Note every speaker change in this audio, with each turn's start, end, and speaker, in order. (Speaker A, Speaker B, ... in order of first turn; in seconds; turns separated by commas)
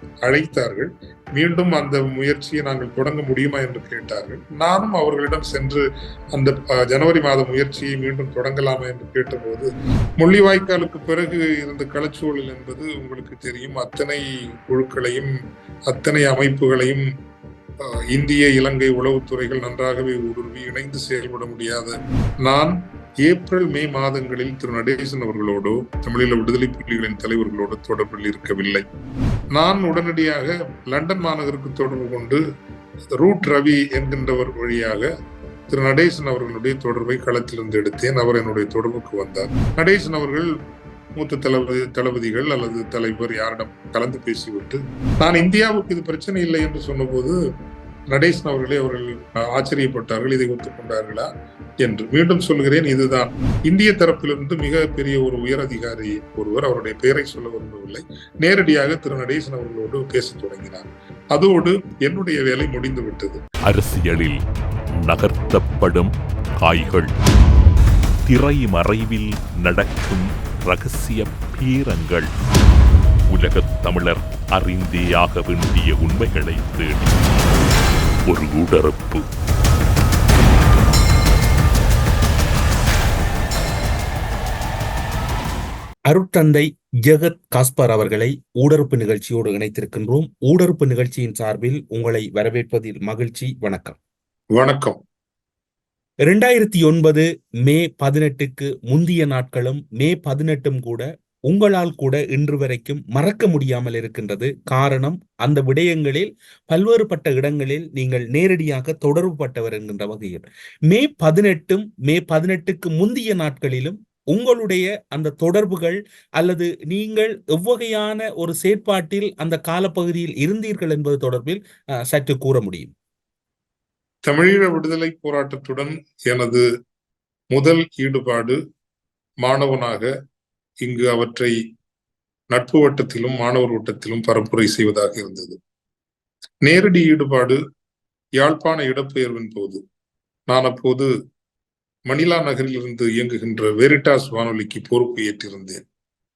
Speaker A: 0.2-9.7, Speaker A: 10.2-15.3, Speaker A: 15.9-17.1, Speaker A: 17.8-28.8, Speaker A: 29.5-32.4, Speaker A: 33.1-35.1, Speaker A: 35.7-40.5, Speaker A: 41.2-47.4, Speaker A: 48.1-51.3, Speaker A: 51.8-63.4, Speaker B: 63.7-64.4, Speaker B: 65.0-67.1, Speaker B: 68.2-72.3, Speaker B: 73.3-77.2, Speaker B: 78.3-79.2, Speaker C: 86.1-94.0, Speaker A: 94.5-95.0, Speaker C: 96.2-122.9, Speaker A: 124.2-126.6, Speaker A: 127.5-128.6, Speaker A: 129.4-130.1, Speaker A: 130.8-131.6, Speaker A: 132.5-135.6, Speaker A: 136.6-137.6, Speaker A: 138.4-139.8, Speaker A: 140.5-141.1, Speaker A: 142.1-145.8